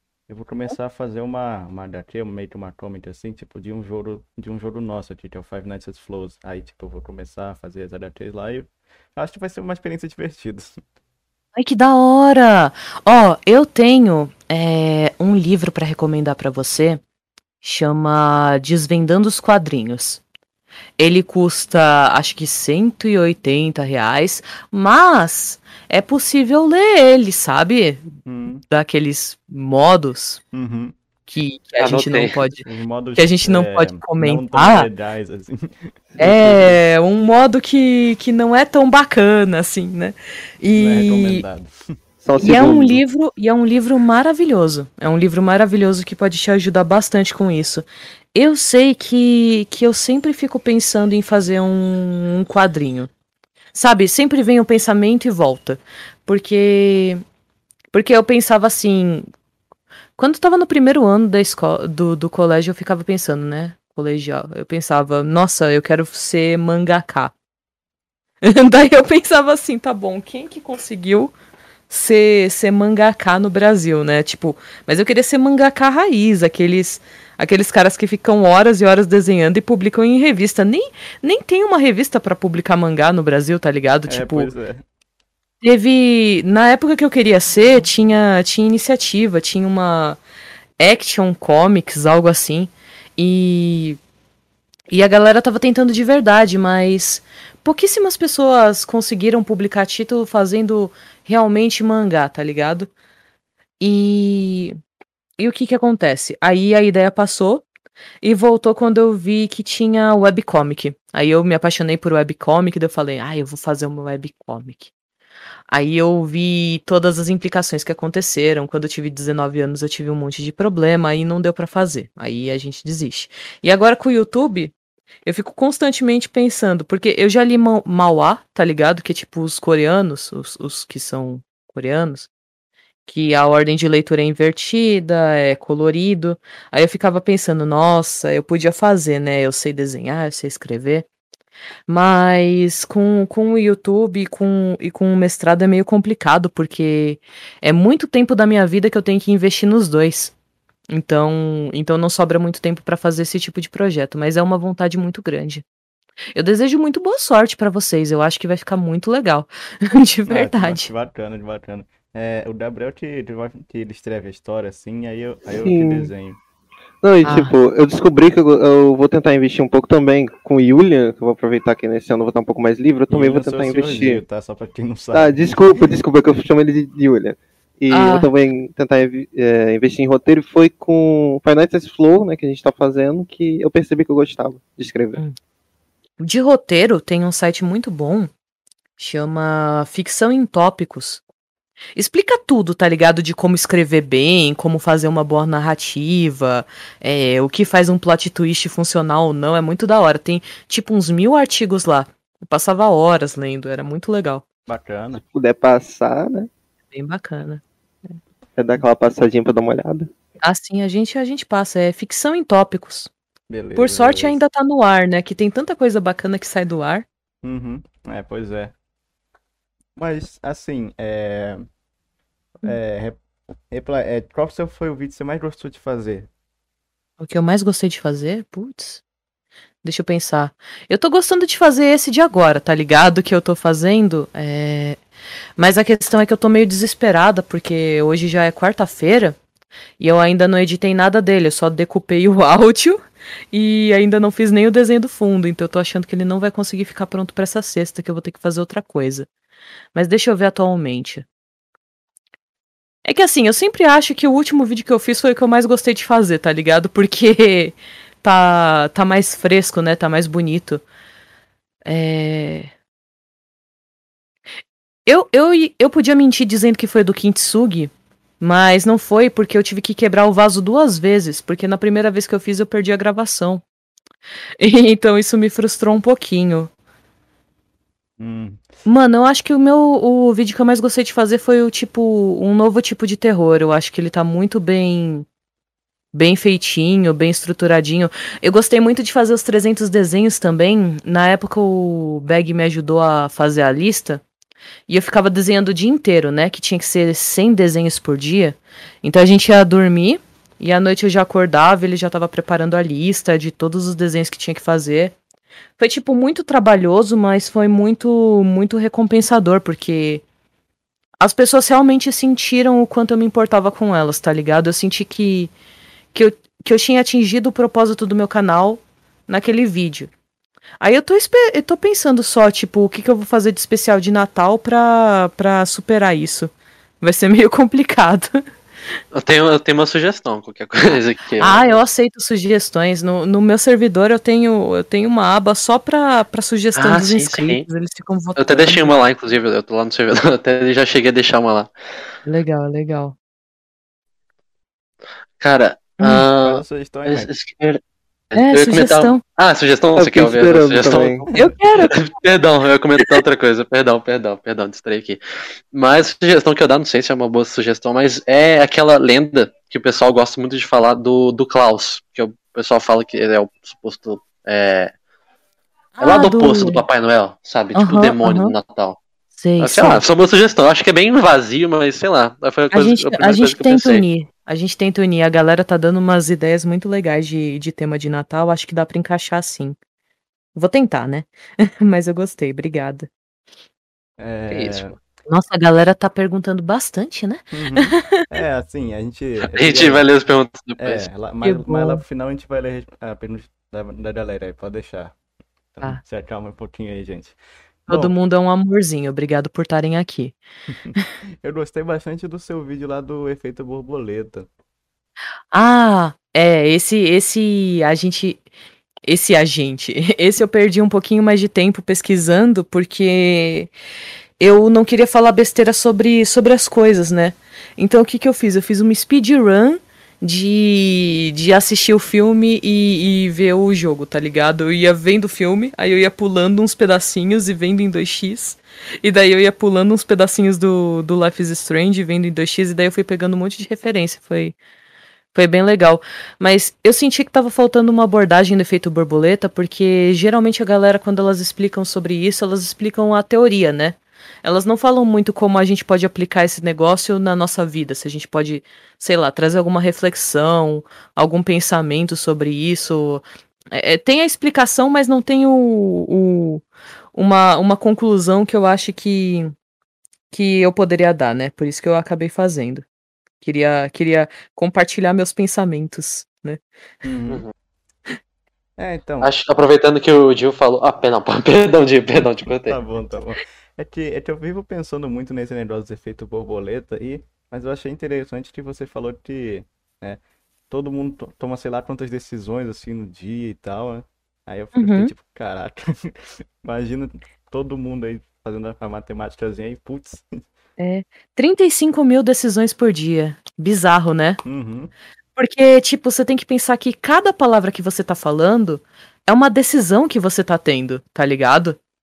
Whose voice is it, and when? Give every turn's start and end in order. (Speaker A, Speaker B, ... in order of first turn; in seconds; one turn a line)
Speaker A: 0.3-10.8
Speaker B: 11.5-17.0
Speaker B: 17.6-20.2
Speaker B: 21.0-28.1
Speaker A: 28.2-28.6
Speaker B: 28.7-30.4
Speaker A: 30.5-30.9
Speaker B: 31.3-32.6
Speaker C: 31.8-32.4
Speaker A: 32.6-36.8
Speaker B: 33.2-34.9
Speaker B: 36.2-41.4
Speaker A: 40.7-42.0
Speaker D: 42.2-43.0
Speaker B: 42.4-53.1
Speaker B: 53.7-57.2
Speaker B: 57.9-59.3
Speaker B: 60.2-67.3
Speaker B: 68.4-71.3
Speaker B: 71.9-84.5
Speaker A: 84.1-84.8
Speaker B: 85.6-90.2
Speaker B: 90.8-94.0
Speaker B: 94.9-102.9
Speaker B: 103.8-104.8
Speaker B: 105.4-107.6
Speaker B: 108.2-114.9
Speaker B: 115.7-124.7
Speaker B: 125.2-132.3
Speaker B: 133.1-141.1
Speaker B: 141.9-150.3
Speaker B: 150.9-155.6
Speaker B: 156.3-160.9
Speaker A: 160.3-166.4
Speaker D: 165.6-166.1
Speaker D: 167.0-174.2
Speaker B: 167.2-167.5
Speaker A: 173.1-175.8
Speaker D: 175.1-185.2
Speaker B: 177.9-178.3
Speaker B: 186.2-188.3
Speaker B: 189.0-191.2
Speaker B: 191.9-204.4
Speaker A: 204.7-205.2
Speaker D: 205.2-206.5
Speaker B: 206.9-207.6
Speaker D: 208.6-210.1
Speaker B: 210.4-213.1
Speaker A: 213.5-214.4
Speaker B: 213.8-217.0
Speaker A: 217.4-218.7
Speaker A: 220.0-221.7
Speaker A: 222.6-223.2
Speaker A: 223.7-226.3
Speaker B: 227.2-229.0
Speaker B: 229.8-235.0
Speaker B: 235.6-239.3
Speaker B: 240.0-243.0
Speaker B: 243.5-249.3
Speaker B: 249.9-251.2
Speaker B: 253.0-260.8
Speaker B: 261.8-262.7
Speaker B: 265.1-273.6
Speaker B: 274.6-276.7
Speaker A: 278.2-278.6
Speaker B: 278.8-285.2
Speaker B: 286.1-294.2
Speaker B: 294.9-305.1
Speaker B: 305.8-310.2
Speaker B: 311.2-315.5
Speaker B: 316.1-320.1
Speaker B: 320.8-328.4
Speaker C: 329.1-331.8
Speaker B: 331.4-338.9
Speaker C: 336.8-337.6
Speaker C: 338.4-341.7
Speaker B: 342.2-343.1
Speaker C: 345.4-347.8
Speaker B: 346.0-346.3
Speaker A: 346.3-347.3
Speaker C: 348.3-351.3
Speaker B: 348.3-349.2
Speaker D: 349.9-351.2
Speaker B: 351.3-352.0
Speaker C: 351.8-355.2
Speaker C: 355.7-364.9
Speaker B: 366.0-366.8
Speaker C: 366.0-369.0
Speaker B: 367.7-368.5
Speaker B: 369.4-370.0
Speaker C: 369.6-374.0
Speaker B: 372.7-379.8
Speaker B: 380.5-383.1
Speaker A: 384.2-385.0
Speaker B: 384.5-388.2
Speaker A: 387.5-390.1
Speaker C: 389.4-391.0
Speaker A: 390.8-395.1
Speaker B: 391.4-392.0
Speaker A: 395.7-398.1
Speaker B: 397.9-400.4
Speaker A: 400.9-404.5
Speaker B: 405.5-408.4
Speaker B: 409.1-413.7
Speaker B: 414.4-434.6
Speaker B: 435.3-456.6
Speaker B: 457.1-459.5
Speaker B: 460.3-462.8
Speaker B: 463.4-466.6
Speaker A: 467.0-467.4
Speaker A: 468.8-469.3
Speaker C: 469.2-472.8
Speaker A: 472.6-490.4
Speaker B: 484.7-485.1
Speaker B: 490.8-494.4
Speaker A: 494.4-494.9
Speaker B: 495.4-501.8